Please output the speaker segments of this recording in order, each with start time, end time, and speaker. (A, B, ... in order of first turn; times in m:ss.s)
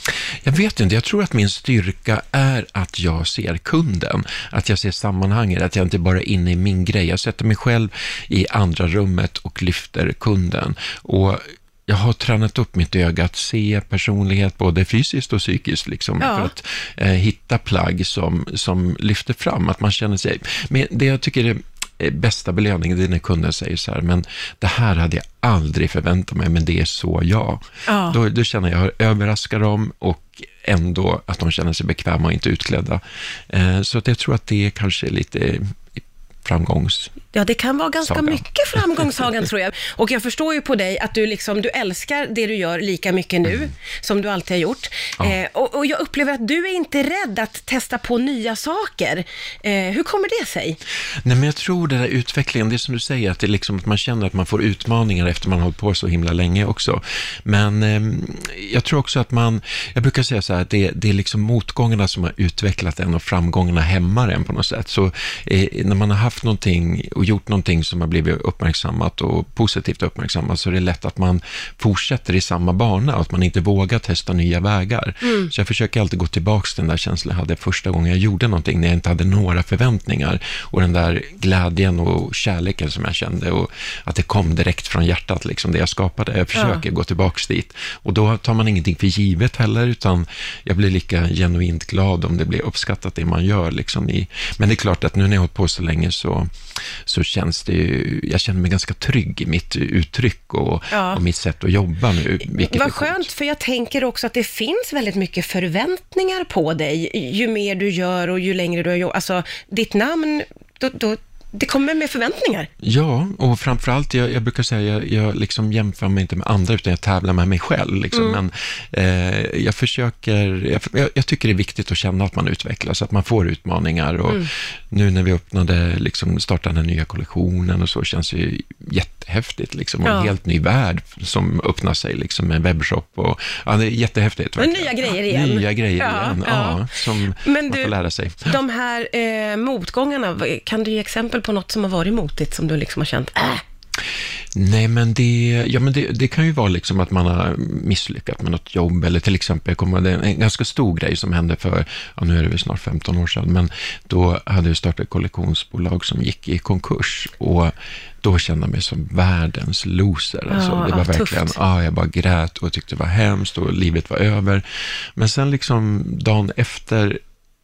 0:00.4-0:37.1 A
0:16.2-0:16.5 B
0:27.9-0:28.2 B
0:37.3-0:50.8 B
0:38.0-0:38.4 A
0:51.2-1:36.5 A
1:15.2-1:15.5 B
1:26.5-1:26.8 B
1:37.0-1:43.2 A
1:40.9-1:41.2 B
1:42.5-1:52.7 B
1:52.8-2:18.6 A
1:58.1-1:58.4 B
2:10.0-2:10.3 B
2:14.6-2:17.9 B
2:18.5-2:23.6 B
2:24.5-2:37.7 A
2:38.2-2:47.2 A
2:40.5-2:41.6 B